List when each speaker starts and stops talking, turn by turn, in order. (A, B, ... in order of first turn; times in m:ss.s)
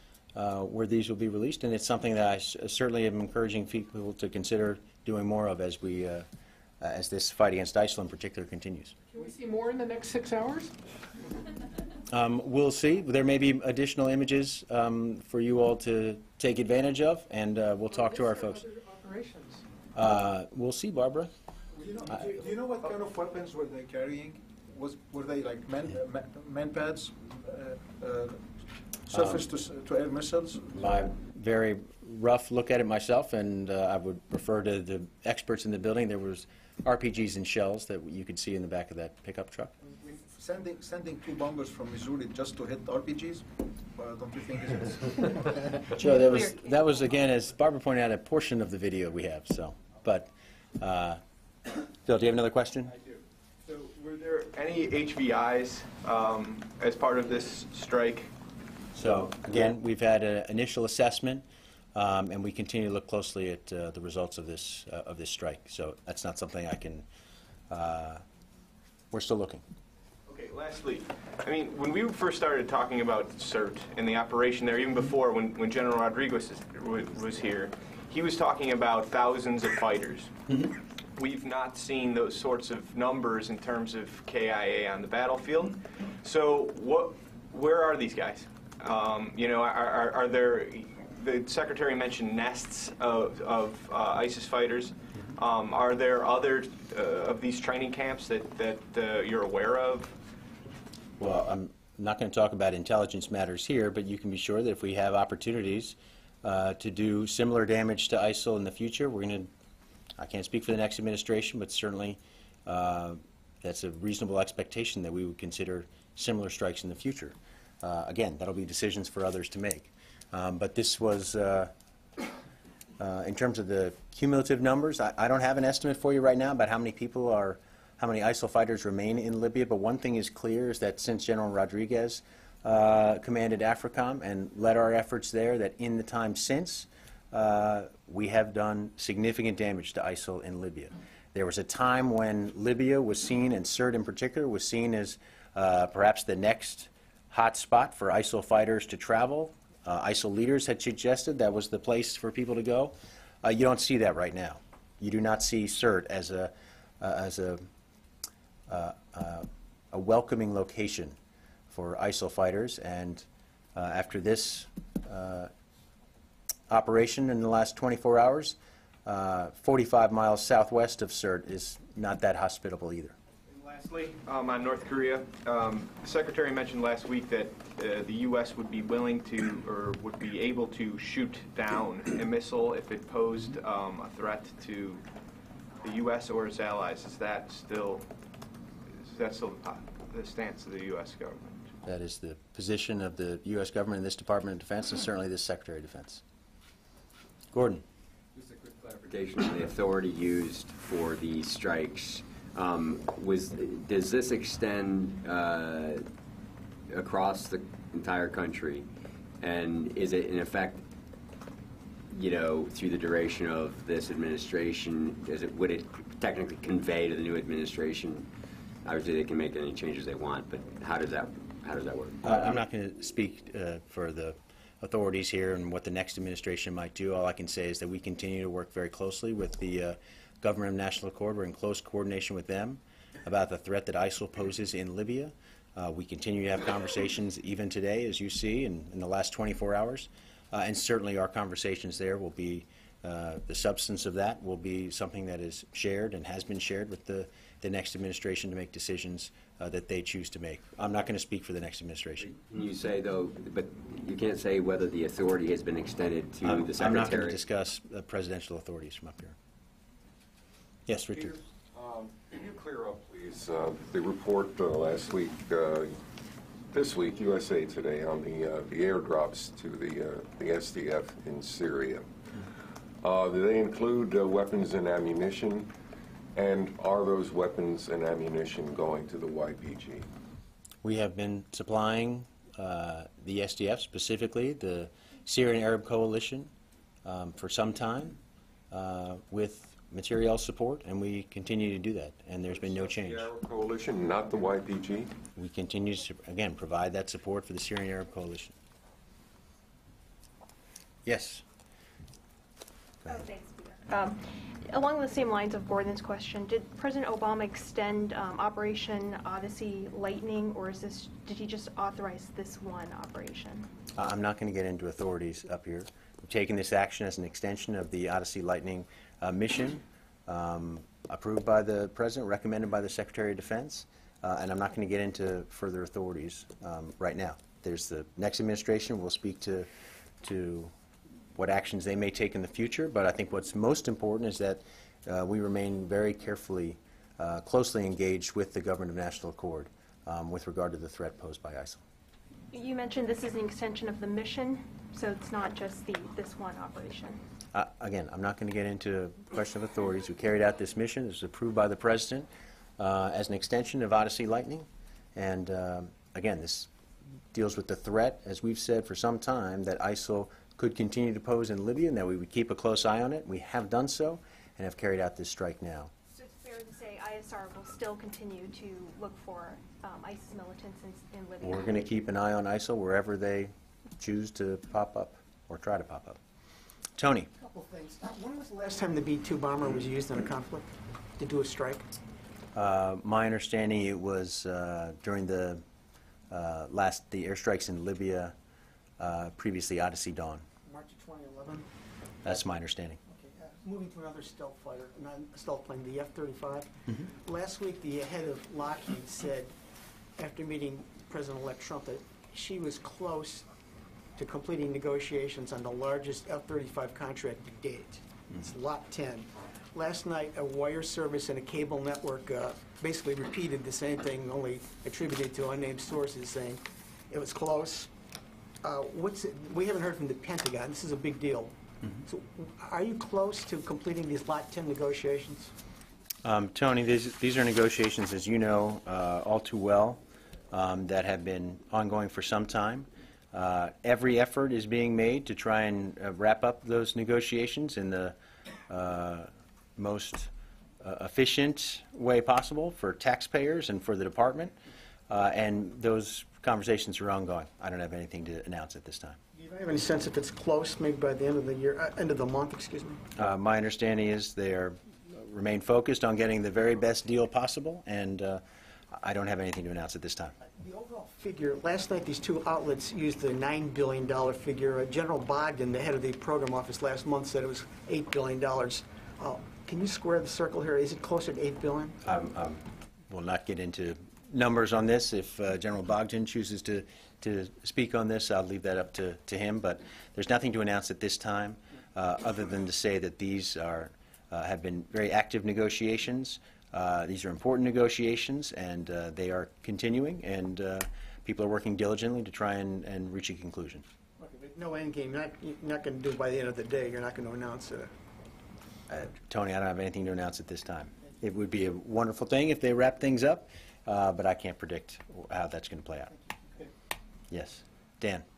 0:00.4-0:06.3 A
0:06.8-0:08.9 A
0:09.1-0:10.7 B
0:12.1-0:18.6 A
0:17.9-0:19.6 B
0:19.9-0:21.3 A
0:21.9-0:28.4 C
0:22.1-0:22.4 A
0:29.1-0:30.8 C
0:29.1-0:29.5 A
0:30.8-0:39.7 A
0:40.1-0:45.5 C
0:46.0-0:51.2 A
0:46.2-0:46.6 D
0:52.0-0:52.9 A
0:53.0-0:58.3 E
0:58.9-1:07.0 A
1:07.7-1:08.2 A
1:09.1-1:09.6 A
1:10.3-1:20.4 E
1:21.2-1:40.2 E
1:41.2-1:49.5 A
1:50.2-2:01.7 A
2:03.0-2:37.6 A
2:38.7-2:41.2 A
2:41.7-2:45.5 A
2:46.7-2:53.2 A
2:53.5-3:05.0 E
3:05.8-3:08.1 E
3:08.9-3:11.7 E
3:11.8-3:16.2 A
3:17.5-3:17.8 A
3:19.0-3:26.1 F
3:26.9-3:28.9 F
3:29.4-3:30.8 F
3:32.1-3:38.3 F
3:38.8-3:42.4 F
3:42.2-4:12.3 A
4:12.2-4:17.4 F
4:16.4-4:19.4 A
4:20.9-4:21.4 A
4:21.1-4:26.0 G
4:26.7-4:32.1 G
4:33.0-4:35.7 G
4:36.4-4:40.1 G
4:40.8-4:46.5 A
4:47.0-4:48.2 A
4:48.7-4:53.3 A
4:52.5-4:55.1 G
4:55.4-4:58.6 A
5:01.0-5:01.4 A
5:03.1-5:13.7 D
5:14.0-5:29.7 A
5:30.2-5:30.7 A
5:31.4-5:41.8 A
5:42.5-5:47.2 D
5:47.5-5:52.3 A
5:52.8-5:56.7 A
5:57.3-6:05.9 A
6:06.1-6:11.9 D
6:11.4-6:16.2 A
6:17.0-6:17.3 A
6:17.4-6:21.9 H
6:22.5-6:25.6 A
6:26.3-6:28.4 A
6:29.0-6:30.4 A
6:30.6-6:31.7 H
6:32.2-6:33.0 A
6:33.1-6:39.5 H
6:40.2-6:43.5 H
6:44.2-6:57.9 H
6:58.6-7:01.5 H
7:02.1-7:05.5 H
7:06.2-7:18.2 A
7:18.7-7:20.3 A
7:20.8-7:24.6 A
7:25.1-7:29.2 A
7:29.4-7:33.0 H
7:33.2-7:38.4 A
7:38.9-7:40.4 A
7:40.4-7:52.0 H
7:52.0-8:13.8 A
8:14.2-8:17.9 H
8:18.9-8:26.1 A
8:26.3-8:26.7 H
8:27.3-8:28.2 A